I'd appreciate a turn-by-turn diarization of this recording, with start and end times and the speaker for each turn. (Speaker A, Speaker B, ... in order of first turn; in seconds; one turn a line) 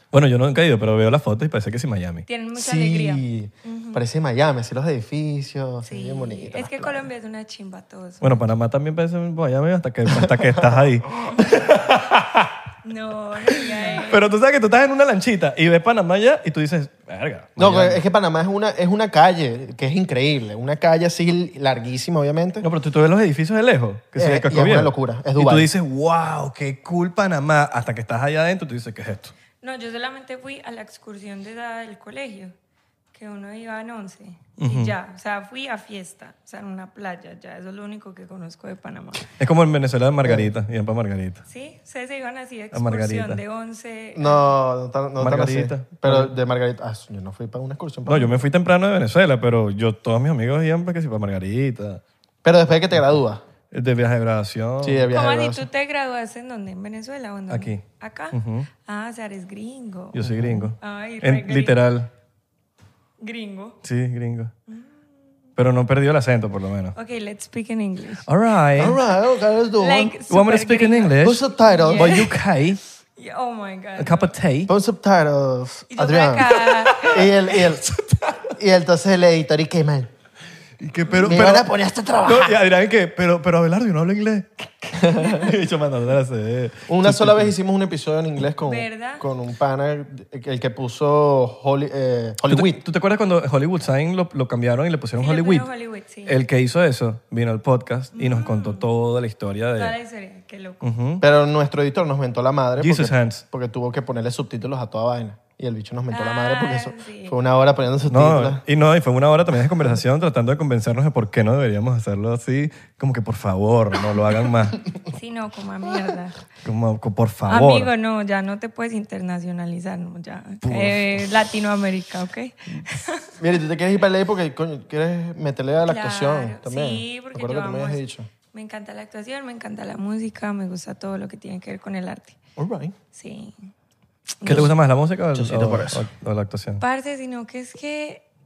Speaker A: 0.1-2.2
Speaker B: 2.3-4.0
Speaker C: 2.5-7.1
Speaker B: 5.8-8.4
Speaker A: 8.2-12.5
Speaker C: 10.1-11.3
Speaker B: 12.8-14.2
Speaker A: 13.6-18.0
Speaker C: 17.6-22.6
Speaker A: 22.6-29.3
Speaker C: 24.2-25.7
Speaker B: 29.6-32.5
Speaker B: 33.1-39.3
Speaker A: 34.6-34.9
Speaker A: 39.4-41.4
Speaker B: 41.5-44.5
Speaker A: 42.7-43.4
Speaker C: 44.1-48.4
Speaker A: 45.2-46.3
Speaker A: 48.0-52.0
Speaker C: 52.4-53.4
Speaker A: 53.7-55.1
Speaker C: 54.8-55.7
Speaker B: 55.1-61.8
Speaker A: 57.5-58.7
Speaker A: 60.1-62.1
Speaker B: 63.2-63.8
Speaker A: 63.8-64.5
Speaker A: 65.6-66.9
Speaker B: 66.9-68.3
Speaker A: 68.2-69.0
Speaker C: 68.8-70.2
Speaker B: 69.8-72.3
Speaker A: 70.3-72.8
Speaker C: 71.2-72.3
Speaker B: 73.2-74.3
Speaker A: 74.0-74.7
Speaker C: 74.7-77.9
Speaker B: 75.9-77.3
Speaker A: 76.7-77.2
Speaker A: 77.8-78.5
Speaker C: 78.5-80.1
Speaker A: 80.8-81.7
Speaker C: 81.2-82.6
Speaker A: 82.2-87.5
Speaker C: 85.0-85.5
Speaker C: 86.9-92.8
Speaker B: 88.6-89.2
Speaker A: 92.5-95.7
Speaker B: 95.2-96.4
Speaker A: 96.2-99.9
Speaker B: 98.1-98.9
Speaker B: 99.8-100.8
Speaker A: 100.8-101.2
Speaker C: 101.2-108.6
Speaker A: 102.8-103.4
Speaker B: 106.1-107.3
Speaker A: 108.1-114.8
Speaker B: 115.0-116.4
Speaker A: 116.6-117.9
Speaker B: 117.5-123.3
Speaker A: 120.6-121.0
Speaker C: 123.4-128.3
Speaker B: 125.8-128.0
Speaker B: 128.5-132.4
Speaker C: 132.6-132.9
Speaker B: 133.1-133.5
Speaker A: 134.4-136.8
Speaker C: 134.4-134.7
Speaker C: 135.3-136.0
Speaker B: 136.8-138.2